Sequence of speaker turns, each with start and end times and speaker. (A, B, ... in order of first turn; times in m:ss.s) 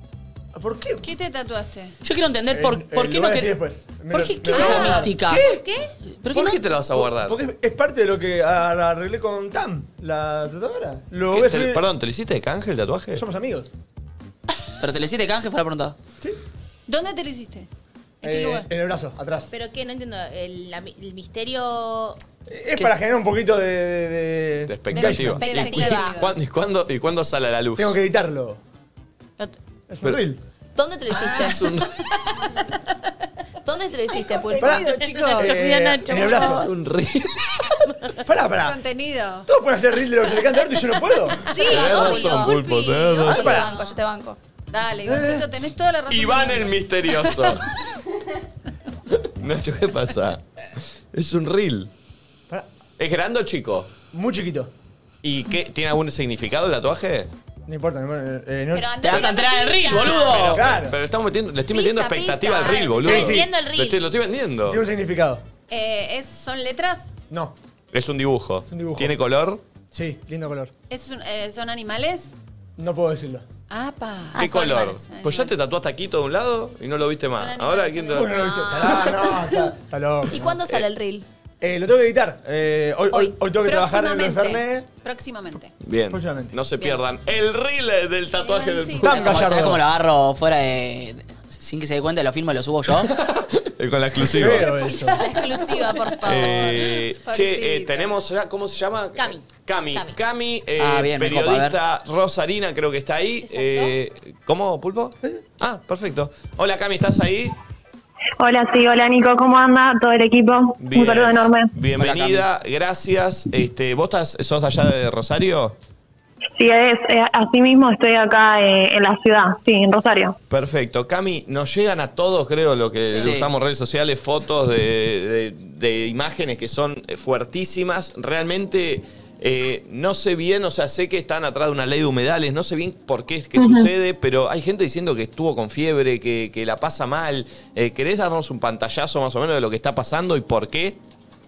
0:00.5-0:01.0 A
0:01.0-0:02.0 B
0:02.0-0:03.5 C
0:02.5-0:05.6 A
0:04.1-0:05.4 C
0:06.1-0:06.6 C
0:06.3-0:07.4 D
0:06.3-0:11.8 A
0:11.3-0:13.2 D
0:13.1-0:13.7 A
0:14.8-0:15.9 C
0:16.9-0:17.7 B
0:18.2-0:18.7 B
0:18.2-0:19.5 A
0:19.5-0:22.2 E
0:22.5-0:25.4 A
0:24.7-0:28.0 D
0:24.9-0:26.4 B
0:25.4-0:26.2 F
0:27.8-0:28.6 A
0:29.9-0:30.4 A
0:30.7-0:31.6 F
0:31.1-0:32.0 D
0:33.6-0:35.4 F
0:34.5-0:36.7 E
0:34.6-0:36.7 A
0:36.3-0:37.8 D
0:38.2-0:38.8 A
0:38.6-0:39.5 B
0:39.5-0:41.4 A
0:41.4-0:43.7 B
0:41.4-0:44.4 F
0:41.5-0:43.6 D
0:43.2-0:43.7 A
0:44.7-0:47.3 B
0:45.0-0:45.4 A
0:46.1-0:47.7 D
0:49.2-0:50.4 D
0:51.1-0:51.9 D
0:53.0-0:53.9 D
0:54.1-0:54.7 A
0:55.2-0:57.3 D
0:57.7-0:59.1 A
0:58.7-1:00.5 B
0:59.0-1:00.6 C
1:00.1-1:04.8 D
1:00.5-1:01.0 A
1:01.7-1:03.3 B
1:02.7-1:04.0 E
1:03.0-1:03.5 A
1:04.6-1:05.4 A
1:05.7-1:07.1 B
1:07.9-1:09.6 D
1:08.7-1:09.1 A
1:09.9-1:10.7 A
1:10.9-1:12.3 B
1:12.8-1:13.4 A
1:13.7-1:15.5 B
1:14.4-1:18.9 D
1:14.4-1:14.9 F
1:17.3-1:19.4 B
1:18.1-1:20.6 A
1:20.3-1:21.2 F
1:21.6-1:24.9 A
1:23.1-1:25.7 B
1:25.8-1:29.7 D
1:26.1-1:26.6 A
1:28.4-1:29.4 B
1:29.0-1:29.8 A
1:29.3-1:33.1 C
1:33.2-1:34.7 D
1:34.2-1:35.2 A
1:34.7-1:38.2 B
1:35.1-1:36.8 F
1:36.2-1:47.5 D
1:39.2-1:39.4 E
1:39.9-1:40.2 F
1:40.8-1:41.8 C
1:48.4-1:51.7 G
1:50.8-1:55.8 D
1:52.0-1:52.4 C
1:56.6-2:00.4 G
2:00.5-2:21.0 D
2:03.1-2:03.5 C
2:13.6-2:13.9 G